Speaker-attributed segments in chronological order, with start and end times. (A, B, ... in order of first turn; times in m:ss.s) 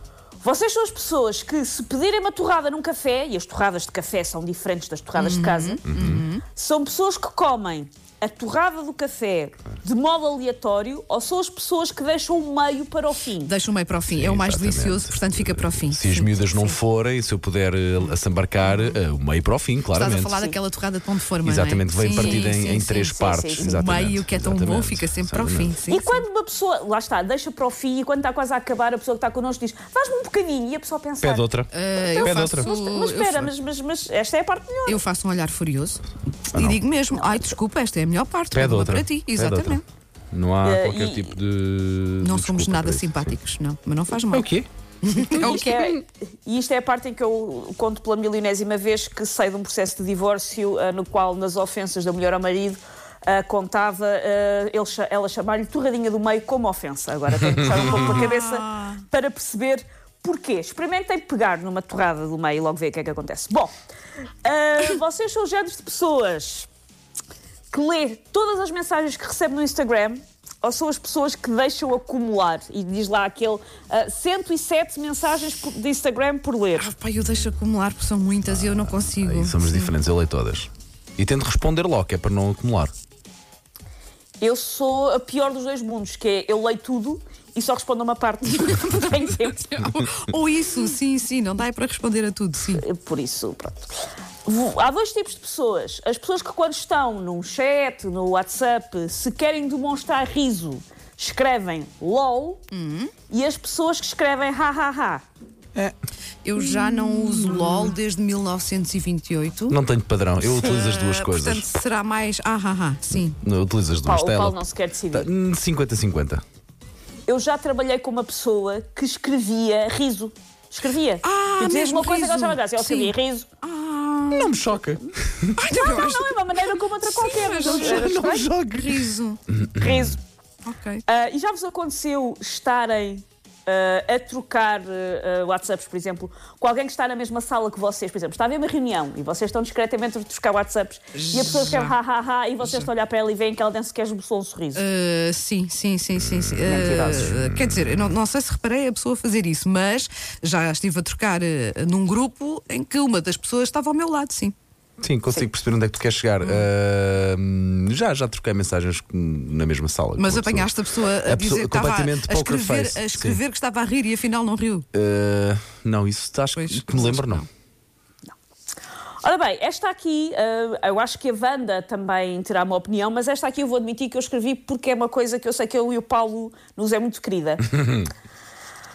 0:00.4-0:13.5 A
0:05.2-0:06.4 B
0:05.9-0:06.2 C
0:13.4-0:16.8 B
0:14.1-0:20.3 C
0:18.6-0:19.0 B
0:19.9-0:26.2 B
0:21.4-0:25.8 C
0:22.1-0:23.9 A
0:25.9-0:31.4 A
0:31.2-0:32.7 C
0:31.7-0:33.5 B
0:32.1-0:35.0 A
0:34.8-0:39.8 B
0:36.5-0:36.8 C
0:37.1-0:37.4 A
0:38.5-0:39.8 C
0:40.3-0:43.4 C
0:40.6-0:41.4 A
0:42.2-0:44.5 B
0:44.3-0:44.7 C
0:45.0-0:45.7 B
0:45.3-1:03.7 A
0:45.4-0:45.8 C
0:57.8-0:59.0 B
1:04.4-1:06.7 A
1:07.7-1:16.9 A
1:16.8-1:19.9 B
1:18.4-1:22.9 C
1:24.4-1:29.8 A
1:29.0-1:32.8 B
1:32.8-1:33.9 A
1:34.4-1:42.6 A
1:42.7-1:43.1 B
1:43.3-1:45.2 A
1:46.4-1:49.8 B
1:49.7-1:51.6 C
1:50.4-1:53.4 B
1:53.1-1:54.6 C
1:54.0-1:55.3 A
1:55.1-1:56.4 C
1:57.3-2:03.5 A
2:01.2-2:04.6 B
2:04.3-2:05.6 C
2:05.6-2:06.3 B
2:05.7-2:08.2 A
2:07.0-2:09.4 B
2:07.6-2:09.1 C
2:09.8-2:10.0 C
2:09.8-2:10.2 A
2:10.6-2:11.0 B
2:11.1-2:24.8 A
2:21.1-2:21.9 B
2:22.6-2:22.9 B
2:24.7-2:34.5 B
2:26.2-2:28.0 C
2:26.6-2:27.4 A
2:35.0-2:43.4 C
2:36.4-2:36.7 B
2:40.2-2:44.9 B
2:44.9-2:47.4 C
2:46.5-2:47.4 B
2:49.2-2:58.1 A